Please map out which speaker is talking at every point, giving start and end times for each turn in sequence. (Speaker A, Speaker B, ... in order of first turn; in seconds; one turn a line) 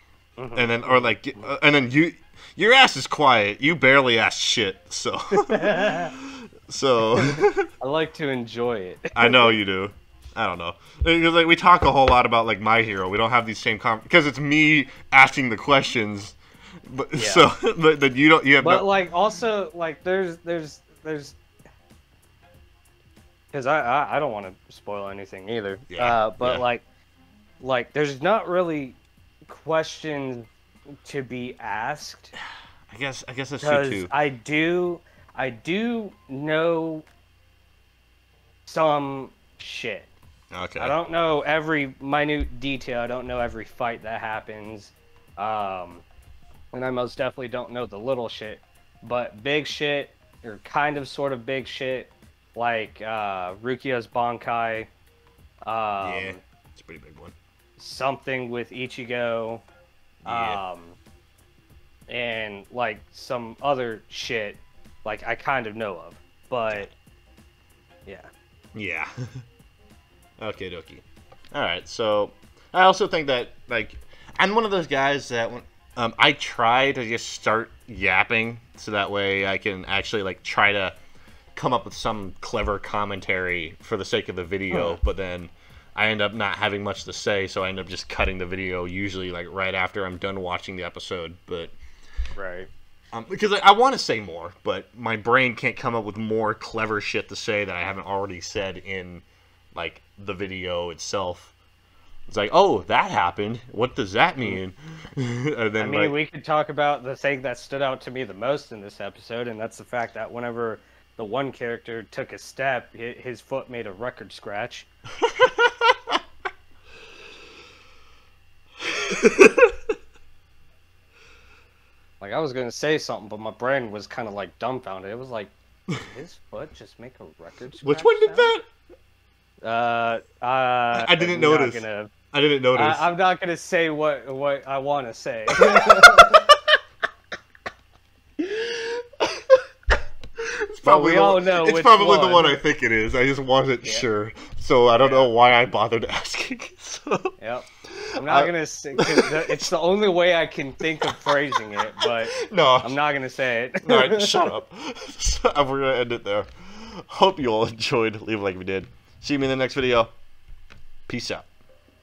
Speaker A: 0.4-1.5
Speaker B: 0.6-7.7
Speaker A: 5.4-6.1
Speaker A: 7.2-9.5
Speaker B: 9.2-18.9
Speaker A: 17.2-17.5
Speaker A: 18.6-21.4
Speaker A: 23.5-26.9
Speaker B: 25.9-26.6
Speaker A: 27.6-30.5
Speaker A: 31.0-32.3
Speaker B: 32.9-34.1
Speaker A: 33.6-37.1
Speaker A: 38.7-40.1
Speaker B: 40.5-41.0
Speaker A: 40.8-46.0
Speaker A: 46.7-54.9
Speaker A: 55.6-56.4
Speaker B: 56.0-57.4
Speaker A: 57.8-59.6
Speaker B: 60.2-60.6
Speaker A: 60.3-61.0
Speaker A: 62.1-66.9
Speaker A: 68.1-68.3
Speaker B: 68.7-69.4
Speaker B: 70.4-81.0
Speaker B: 81.6-91.8
Speaker A: 84.7-85.0
Speaker A: 92.4-92.7
Speaker B: 93.1-101.5
Speaker B: 102.3-106.2
Speaker A: 105.8-114.9
Speaker B: 115.3-116.2
Speaker B: 119.0-119.7
Speaker A: 122.2-128.5
Speaker B: 127.8-128.7
Speaker A: 129.6-132.1
Speaker B: 130.9-133.1
Speaker A: 132.7-136.4
Speaker B: 135.6-136.6
Speaker B: 138.4-139.7
Speaker B: 140.4-149.7
Speaker A: 140.8-142.6
Speaker A: 145.0-145.3
Speaker A: 147.4-154.5
Speaker B: 151.0-153.0
Speaker B: 153.8-160.1
Speaker B: 161.1-161.5